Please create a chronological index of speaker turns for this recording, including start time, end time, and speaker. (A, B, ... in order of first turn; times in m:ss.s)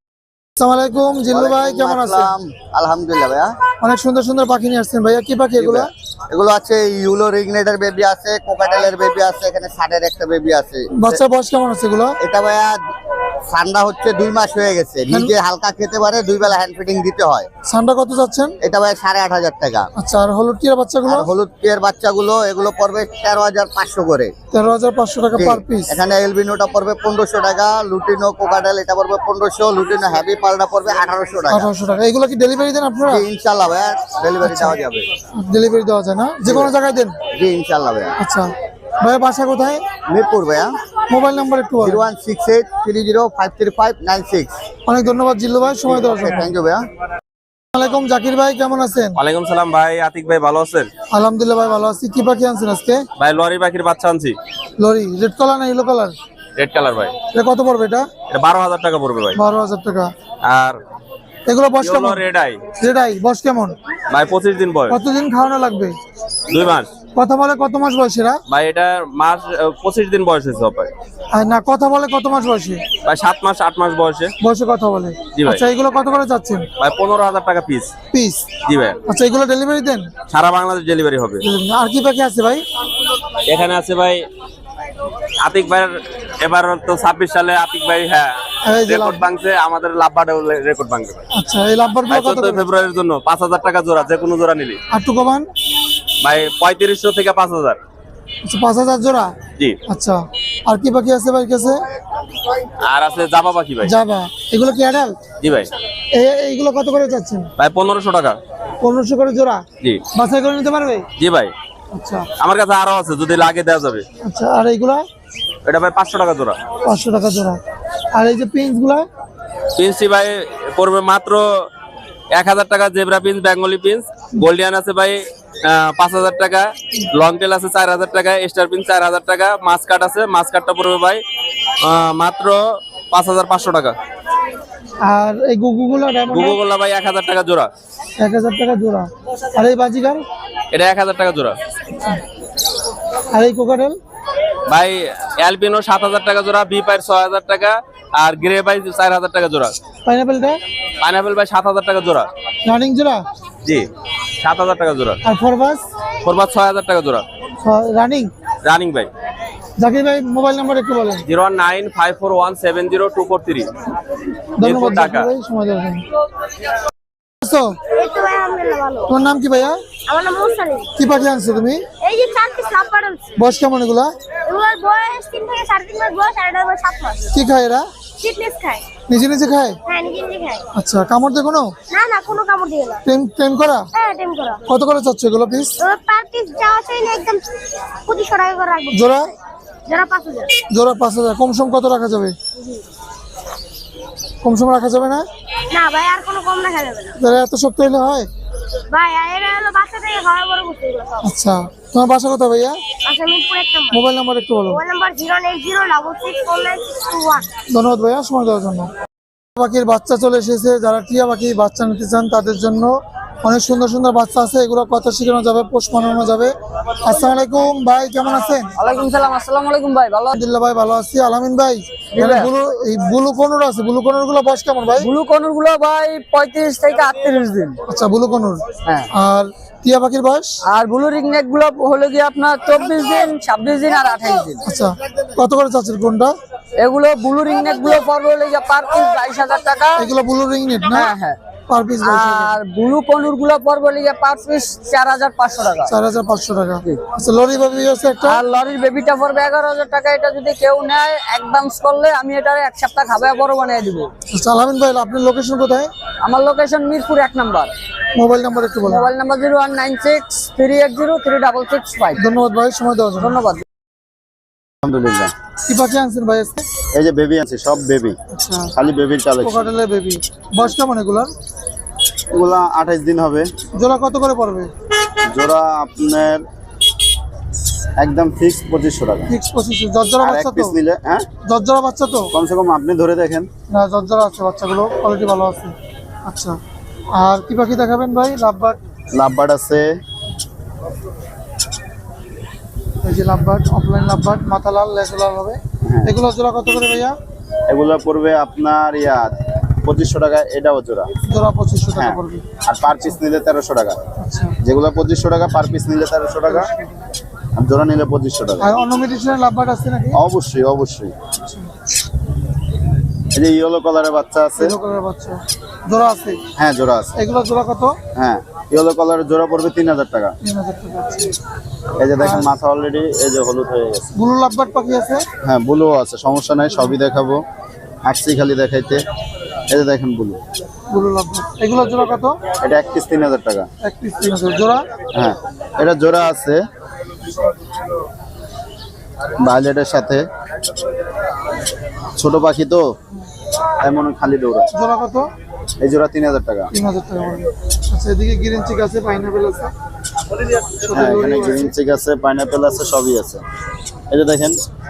0:00.6-0:02.3 A
0:01.3-0:03.5 B
0:03.8-0:05.9 A
0:06.3-0:10.8 B
0:10.9-0:12.1 A
0:12.2-0:12.8 B
0:13.5-0:17.5 B
0:15.1-0:15.3 A
0:17.7-0:18.6 A
0:18.6-0:19.9 B
0:20.0-0:21.3 A
0:21.1-0:24.3 B
0:24.5-0:26.0 A
0:25.4-0:31.6 B
0:31.5-0:33.3 A
0:33.1-0:35.0 B
0:34.4-0:34.8 A
0:35.4-0:37.2 A
0:37.3-0:38.1 B
0:38.2-0:38.5 A
0:39.0-0:39.8 A
0:40.1-0:40.7 B
0:41.1-0:42.1 A
0:41.9-0:44.5 B
0:44.9-0:46.5 A
0:46.4-0:46.8 B
0:47.7-0:49.2 A
0:49.2-0:50.9 C
0:51.1-0:53.0 A
0:53.2-0:54.4 C
0:54.8-0:56.2 A
0:56.6-0:57.1 C
0:57.3-0:58.0 A
0:58.3-0:59.4 C
0:59.4-1:00.1 A
1:00.4-1:00.8 C
1:01.5-1:02.2 A
1:01.8-1:02.6 C
1:02.8-1:03.8 A
1:04.1-1:05.0 C
1:04.9-1:06.0 A
1:06.5-1:06.9 C
1:07.1-1:08.4 A
1:08.5-1:10.9 C
1:11.4-1:12.8 A
1:13.0-1:14.3 C
1:14.4-1:16.7 A
1:15.4-1:15.6 C
1:16.8-1:17.9 C
1:18.1-1:18.4 A
1:18.6-1:19.0 C
1:19.1-1:20.1 A
1:20.3-1:21.4 C
1:21.4-1:22.6 A
1:23.4-1:24.3 C
1:25.4-1:28.3 C
1:28.6-1:29.2 A
1:28.8-1:31.2 C
1:31.4-1:32.6 A
1:32.1-1:34.8 C
1:34.9-1:35.5 A
1:36.2-1:37.8 C
1:38.4-1:39.3 A
1:39.9-1:41.8 A
1:42.8-1:43.9 C
1:43.8-1:45.2 A
1:45.4-1:45.7 C
1:46.2-1:47.5 A
1:47.6-1:48.4 C
1:48.8-1:49.6 A
1:50.1-1:51.0 A
1:51.2-1:51.5 C
1:51.9-1:52.3 A
1:52.4-1:54.0 C
1:54.2-1:55.0 A
1:55.6-1:56.6 C
1:56.8-1:57.6 A
1:58.2-1:59.0 A
1:59.8-2:01.7 C
2:02.3-2:11.2 C
2:11.8-2:14.0 C
2:15.1-2:16.6 A
2:16.3-2:17.7 C
2:18.2-2:20.2 A
2:20.7-2:21.5 C
2:23.3-2:24.0 A
2:24.7-2:29.8 C
2:30.0-2:30.6 A
2:31.0-2:32.3 C
2:32.6-2:33.2 A
2:34.4-2:35.2 C
2:35.2-2:35.8 A
2:36.2-2:37.2 C
2:37.6-2:38.3 A
2:38.6-2:39.1 C
2:39.8-2:41.2 A
2:41.3-2:43.7 C
2:44.6-2:46.0 A
2:44.6-2:45.3 C
2:47.4-2:47.8 A
2:48.0-2:49.1 D
2:49.1-2:49.8 A
2:50.1-2:50.9 D
2:51.0-2:51.8 A
2:52.0-2:53.3 D
2:53.4-2:54.1 A
2:54.5-2:57.3 D
2:57.3-2:57.8 A
2:58.2-2:58.8 D
2:59.1-2:59.8 A
2:59.9-3:00.6 D
3:00.7-3:01.7 A
3:01.9-3:03.0 D
3:03.0-3:03.8 A
3:03.9-3:04.6 D
3:04.7-3:05.8 A
3:05.8-3:07.4 D
3:08.1-3:09.1 D
3:08.9-3:09.3 A
3:09.9-3:10.6 D
3:10.7-3:12.3 A
3:14.4-3:15.2 A
3:15.7-3:17.2 D
3:17.2-3:18.3 A
3:18.9-3:21.3 D
3:21.2-3:22.8 A
3:23.0-3:24.0 D
3:23.9-3:24.8 A
3:24.7-3:27.5 D
3:27.7-3:28.9 A
3:29.6-3:32.9 A
3:33.4-3:36.5 A
3:37.0-3:38.7 A
3:38.8-3:40.4 E
3:40.4-3:45.1 A
3:42.1-3:42.5 E
3:45.0-3:47.8 E
3:47.9-3:50.5 A
3:50.7-3:54.6 E
3:54.6-3:56.3 A
3:56.8-4:00.1 E
4:00.0-4:01.1 A
4:00.9-4:01.4 E
4:01.7-4:02.6 A
4:02.0-4:05.9 E
4:05.9-4:08.4 A
4:08.2-4:14.1 E
4:14.3-4:15.9 A
4:16.2-4:17.7 E
4:18.2-4:19.1 A
4:18.8-4:22.2 E
4:22.2-4:23.4 A
4:23.2-4:23.6 E
4:24.8-4:25.3 F
4:25.7-4:26.6 A
4:26.9-4:28.2 F
4:28.3-4:28.7 A
4:28.8-4:29.7 F
4:29.4-4:31.3 A
4:32.3-4:33.5 F
4:33.8-4:34.7 A
4:35.3-4:36.4 F
4:38.0-4:39.3 F
4:39.3-4:40.7 A
4:40.2-4:41.2 F
4:41.5-4:42.3 A
4:42.3-4:43.5 F
4:43.7-4:45.7 A
4:46.2-4:46.6 A
4:47.2-4:48.8 A
4:49.1-4:50.0 F
4:53.0-4:57.1 A
4:55.9-4:56.1 F
4:57.7-4:59.3 F
4:59.8-5:01.1 F
5:01.2-5:03.2 A
5:01.9-5:04.0 F
5:04.2-5:04.6 A
5:04.6-5:06.7 F
5:06.5-5:06.9 A
5:07.6-5:08.8 F
5:08.6-5:10.2 A
5:10.1-5:11.1 F
5:11.4-5:11.7 A
5:13.3-5:14.8 F
5:14.6-5:16.4 A
5:16.6-5:17.1 F
5:17.1-5:18.0 A
5:18.2-5:20.3 F
5:20.4-5:21.3 A
5:22.0-5:24.1 F
5:22.2-5:22.5 A
5:24.2-5:25.2 A
5:25.4-5:27.4 F
5:28.0-5:29.0 F
5:29.7-5:30.4 F
5:30.9-5:32.3 A
5:32.6-5:33.7 F
5:33.8-5:34.8 A
5:35.1-5:36.6 F
5:39.4-5:40.2 F
5:42.2-5:42.8 F
5:43.8-5:44.7 F
5:44.7-5:45.3 A
5:45.8-5:46.7 F
5:46.7-5:49.7 A
5:50.8-5:51.7 A
5:50.9-5:53.4 F
5:54.1-5:54.6 F